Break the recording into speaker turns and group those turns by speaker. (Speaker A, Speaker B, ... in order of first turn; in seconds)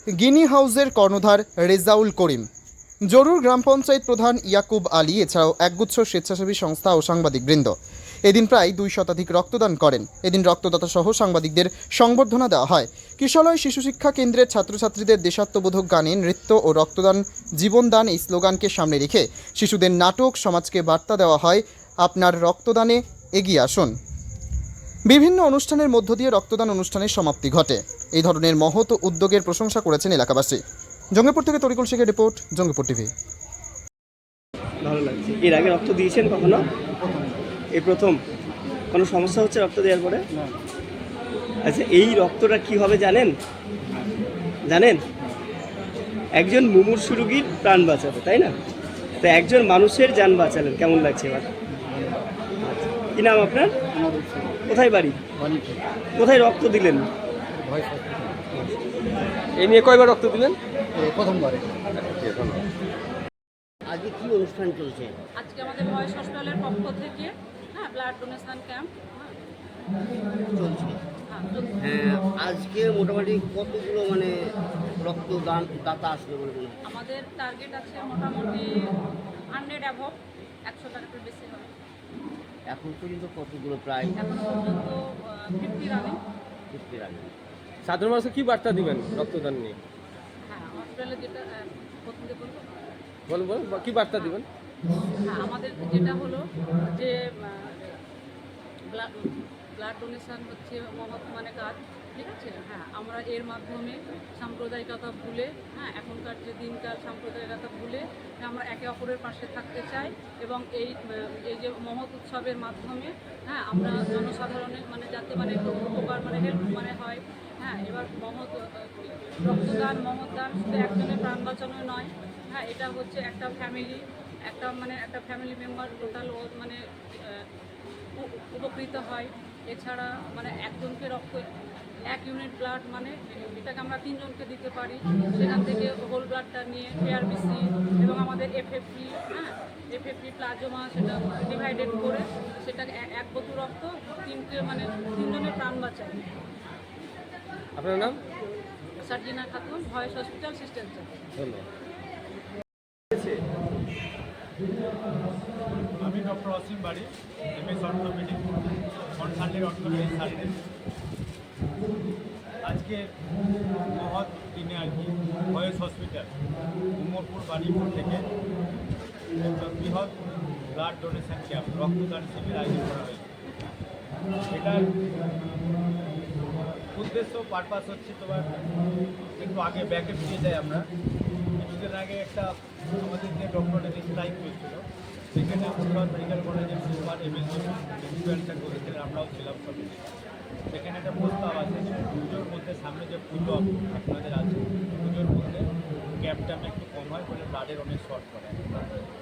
Speaker A: 0.2-2.5, 3.0-23.9, 25.1-30.6, 31.1-33.1
Speaker B: 34.8-36.6, 37.7-38.2, 38.9-40.2, 41.6-43.3, 44.7-45.0, 46.4-48.5, 49.2-51.5, 53.2-53.7, 54.7-55.2, 56.2-57.1
Speaker C: 59.6-60.6, 61.9-62.6, 87.8-89.8, 93.3-94.5, 147.8-148.2, 151.4-151.7
Speaker D: 63.9-65.2, 70.5-71.0, 71.8-76.8, 82.7-84.1, 86.7-87.3
Speaker E: 65.4-69.4, 71.3-71.7, 76.8-78.9, 79.5-81.7, 84.1-86.2, 90.5-92.7, 94.0-94.4, 95.2-98.0, 98.9-127.5, 128.2-131.5, 132.1-146.3, 149.0-151.2
Speaker F: 155.9-160.6, 162.6-163.1, 163.8-166.4, 166.9-168.2, 169.4-173.3, 174.5-174.9, 176.9-178.6, 179.4-180.8, 181.6-190.1, 190.7-199.1